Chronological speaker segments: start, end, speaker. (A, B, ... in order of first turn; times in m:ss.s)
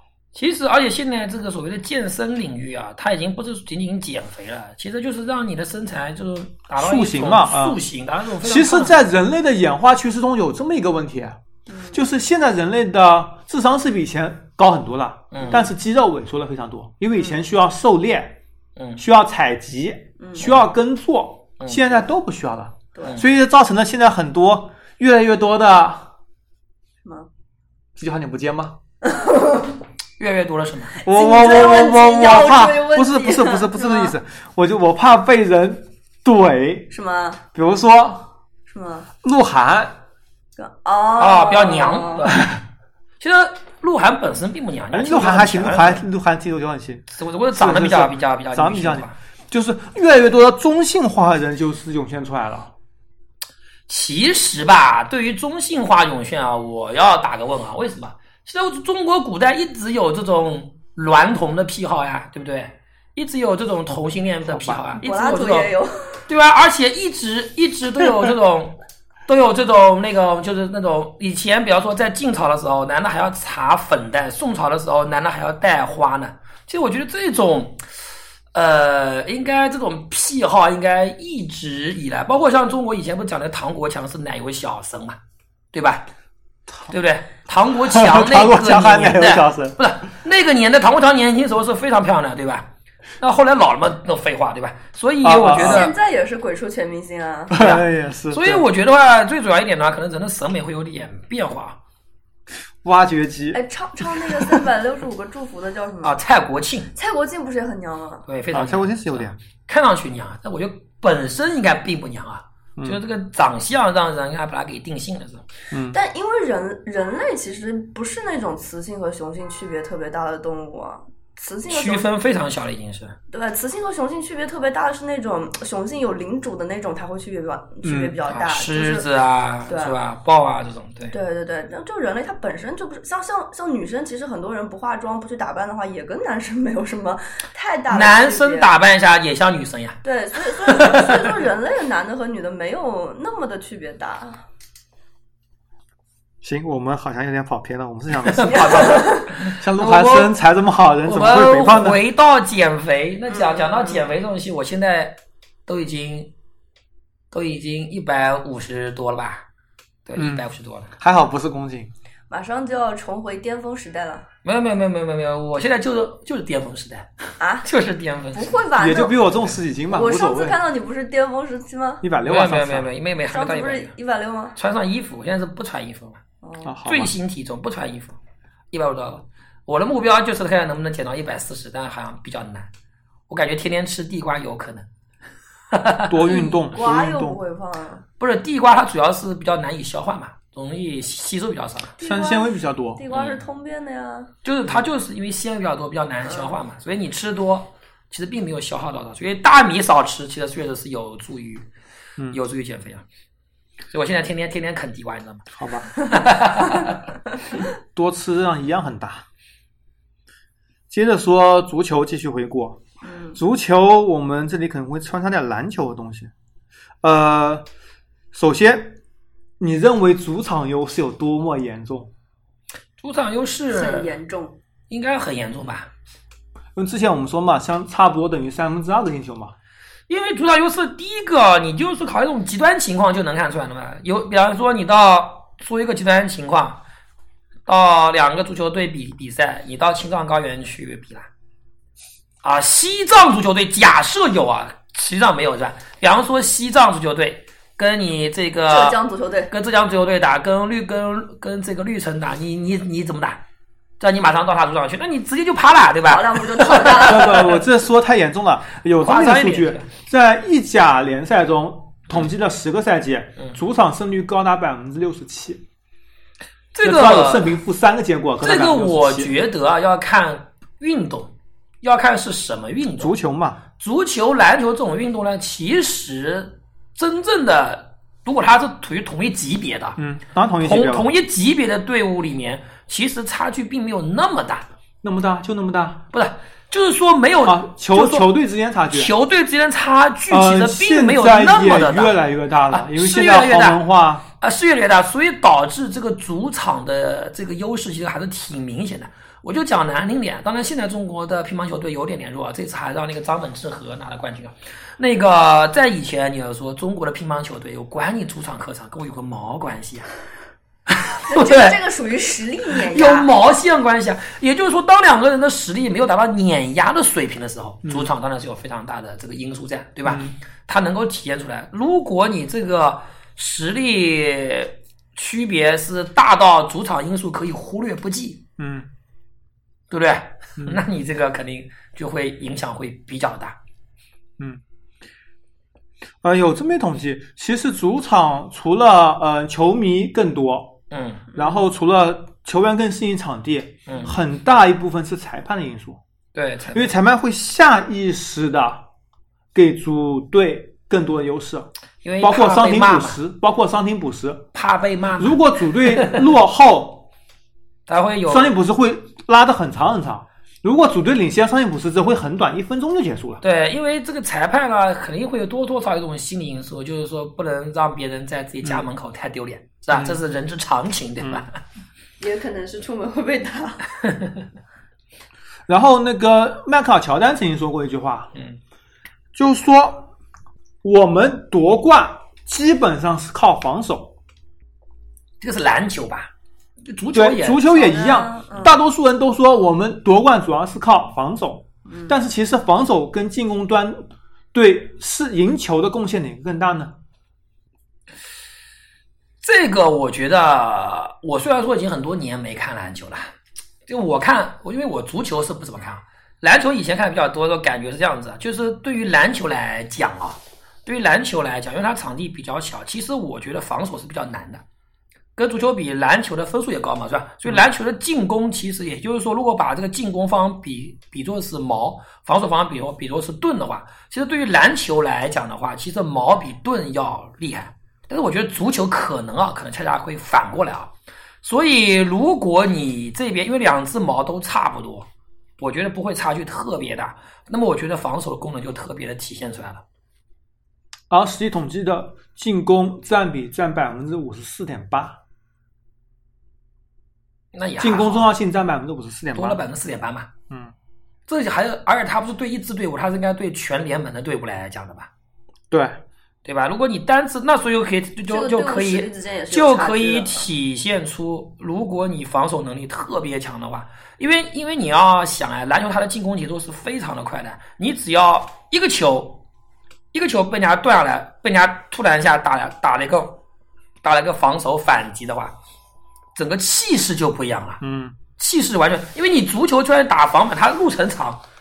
0:00.3-0:09.0 A
0:06.8-0:07.8 B
0:08.4-0:11.4 B
0:11.7-0:12.0 C
0:11.9-0:18.4 B
0:15.3-0:15.6 A
0:18.8-0:19.0 A
0:19.0-0:26.1 B
0:20.2-0:20.5 C
0:21.6-0:21.8 A
0:23.0-0:23.2 C
0:28.0-0:28.8 B
0:29.0-0:29.7 C
0:30.2-0:31.0 A
0:31.0-0:34.1 C
0:31.0-0:36.9 B
0:36.9-0:37.4 C
0:37.5-0:38.3 B
0:38.7-0:39.1 C
0:39.2-0:40.0 B
0:40.6-0:42.4 C
0:41.2-0:42.6 A
0:43.2-0:46.0 A
0:44.9-0:52.7 B
0:47.1-0:49.2 A
0:53.9-1:05.7 A
1:04.4-1:04.8 B
1:05.0-1:06.2 C
1:06.3-1:17.8 A
1:18.5-1:25.2 A
1:25.7-1:26.1 A
1:26.9-1:32.7 A
1:27.8-1:29.8 B
1:33.2-1:35.9 A
1:35.2-1:35.8 B
1:35.5-1:37.6 C
1:37.5-1:38.6 B
1:37.5-1:41.8 A
1:42.8-1:44.6 B
1:43.5-1:46.2 C
1:46.0-1:46.9 A
1:46.9-1:48.2 C
1:48.3-1:55.4 A
1:48.5-1:49.4 B
1:55.7-1:56.0 B
1:55.9-2:02.0 C
2:01.7-2:03.2 A
2:03.3-2:09.0 C
2:07.8-2:08.2 B
2:08.3-2:11.2 A
2:09.7-2:10.0 C
2:11.1-2:18.7 C
2:17.9-2:20.0 A
2:20.0-2:24.4 C
2:20.5-2:21.2 A
2:26.4-2:29.0 B
2:28.2-2:30.3 A
2:28.6-2:29.2 C
2:29.5-2:32.0 B
2:31.0-2:36.3 A
2:33.3-2:34.1 C
2:37.3-2:39.4 A
2:40.0-2:40.9 A
2:40.2-2:40.4 B
2:41.0-2:41.9 B
2:42.3-2:44.2 C
2:44.4-2:47.1 A
2:47.4-2:47.7 C
2:47.6-2:48.6 A
2:48.3-2:49.2 C
2:48.8-2:50.6 B
2:49.9-2:52.0 C
2:52.0-2:52.9 B
2:52.2-2:53.9 A
2:53.3-2:54.6 C
2:54.5-2:56.2 A
2:56.4-2:56.7 C
2:56.6-2:57.1 B
2:56.8-2:58.2 A
2:58.7-3:02.7 A
3:03.3-3:04.8 A
3:05.7-3:06.1 A
3:06.1-3:07.4 B
3:06.2-3:08.0 C
3:08.2-3:11.9 A
3:12.0-3:14.3 C
3:12.0-3:13.0 B
3:13.1-3:13.4 A
3:14.4-3:21.6 A
3:22.3-3:23.0 A
3:23.9-3:27.0 A
3:25.6-3:25.9 B
3:27.9-3:29.2 B
3:30.9-3:32.8 B
3:33.0-3:33.4 C
3:33.3-3:36.3 B
3:37.0-3:37.6 B
3:38.3-3:39.0 B
3:39.6-3:42.1 B
3:43.0-3:44.1 A
3:43.7-3:44.6 C
3:44.9-3:45.9 A
3:46.7-3:49.5 B
3:50.1-3:56.8 A
3:57.6-4:01.3 A
4:02.4-4:09.0 A
4:08.7-4:09.5 C
4:09.5-4:13.4 A
4:14.0-4:17.5 A
4:16.0-4:17.6 C
4:17.0-4:25.6 B
4:19.0-4:19.9 A
4:26.7-4:27.6 A
4:26.8-4:29.4 B
4:28.4-4:33.1 A
4:33.0-4:33.6 B
4:33.8-4:40.0 A
4:40.0-4:41.1 B
4:40.6-4:44.6 A
4:45.0-4:46.0 B
4:46.1-4:48.3 A
4:47.4-4:49.1 B
4:48.9-4:53.8 A
4:50.3-4:54.2 B
4:54.4-5:10.1 A
5:10.9-5:11.8 A
5:11.2-5:13.3 C
5:12.7-5:28.4 A
5:17.8-5:18.1 B
5:20.0-5:20.4 B
5:28.6-5:28.9 B
5:29.9-5:33.6 A
5:36.2-5:40.8 B
5:40.9-5:41.3 A
5:41.3-5:46.0 B
5:43.9-5:44.1 A
5:46.3-5:46.9 A
5:46.7-5:48.9 B
5:49.5-5:51.7 B
5:52.0-5:53.2 A
5:52.2-5:54.5 B
5:54.5-5:56.2 A
5:55.2-5:57.1 B
5:57.9-5:58.6 A
5:58.3-6:03.4 B
6:03.4-6:11.6 A
6:09.9-6:10.2 B
6:12.2-6:13.8 C
6:14.1-6:14.4 A
6:15.7-6:18.3 B
6:19.3-6:20.1 B
6:20.8-6:24.2 B
6:25.4-6:26.3 A
6:26.8-6:27.9 A
6:27.1-6:37.0 B
6:27.7-6:28.8 C
6:31.9-6:32.2 C
6:39.4-6:43.3 A
6:43.9-6:54.6 A
6:55.4-7:19.8 A
7:21.1-7:25.2 B
7:27.5-7:28.3 A
7:27.8-7:29.6 B
7:29.3-7:30.3 A
7:31.3-7:35.1 A
7:35.7-7:36.0 B
7:36.4-7:49.4 A
7:38.3-7:40.5 C
7:50.1-7:53.4 A
7:54.0-7:55.5 A
7:56.3-7:57.8 A
7:57.8-7:58.2 B
7:58.4-8:01.4 A